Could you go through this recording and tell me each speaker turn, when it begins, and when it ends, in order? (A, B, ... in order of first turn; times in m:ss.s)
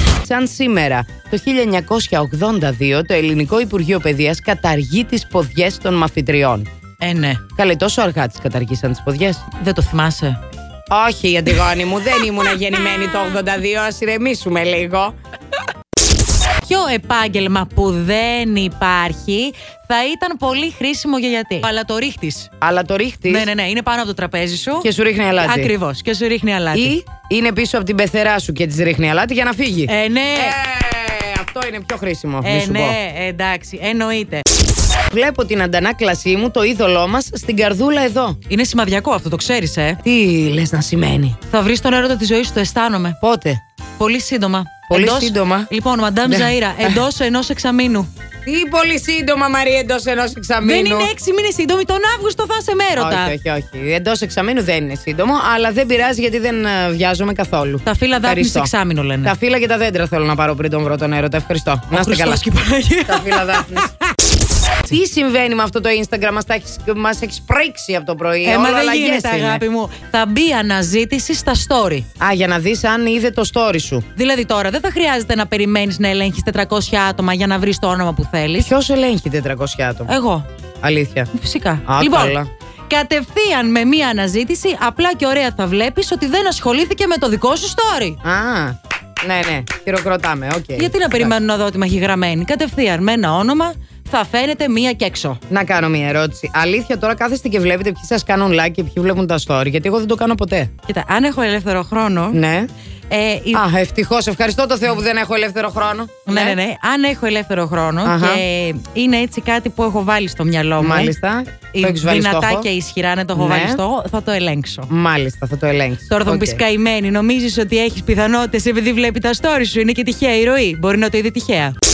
0:00.2-0:06.7 A
0:07.0-0:07.4 B
0:07.6-0:09.4 A
0:09.5-0:10.4 B
0:10.9-0:15.1 A
0:16.6-0:22.5 B
0:22.6-0:23.5 A
0:23.3-0:24.9 B
0:24.8-0:25.7 A
0:25.4-0:26.9 B
0:26.7-0:33.0 A
0:29.9-0:30.6 B
0:32.4-0:34.4 B
0:35.1-0:38.4 A
0:38.5-0:40.0 B
0:40.0-0:41.4 A
0:41.5-0:43.2 B
0:43.2-0:43.6 A
0:44.0-0:48.1 B
0:44.9-0:45.7 A
0:46.2-0:47.0 A
0:48.4-0:51.1 A
0:50.6-0:53.3 B
0:53.0-0:58.7 A
0:57.8-0:59.3 B
0:59.2-1:02.4 A
1:01.9-1:04.0 B
1:03.0-1:03.9 A
1:04.8-1:09.6 A
1:08.4-1:12.0 B
1:12.2-1:14.0 A
1:14.1-1:18.7 B
1:18.6-1:20.1 A
1:20.1-1:20.5 B
1:20.8-1:21.3 A
1:21.3-1:22.4 B
1:21.8-1:22.5 A
1:22.9-1:28.2 B
1:28.2-1:31.4 A
1:30.8-1:35.4 B
1:35.5-1:40.7 A
1:40.8-1:42.4 B
1:42.3-1:42.7 A
1:43.1-1:43.6 B
1:43.5-1:46.6 A
1:46.3-1:51.1 B
1:48.0-1:48.4 A
1:50.8-1:52.7 A
1:51.7-1:54.9 B
1:53.3-1:53.8 A
1:54.9-1:56.6 A
1:56.1-2:01.8 B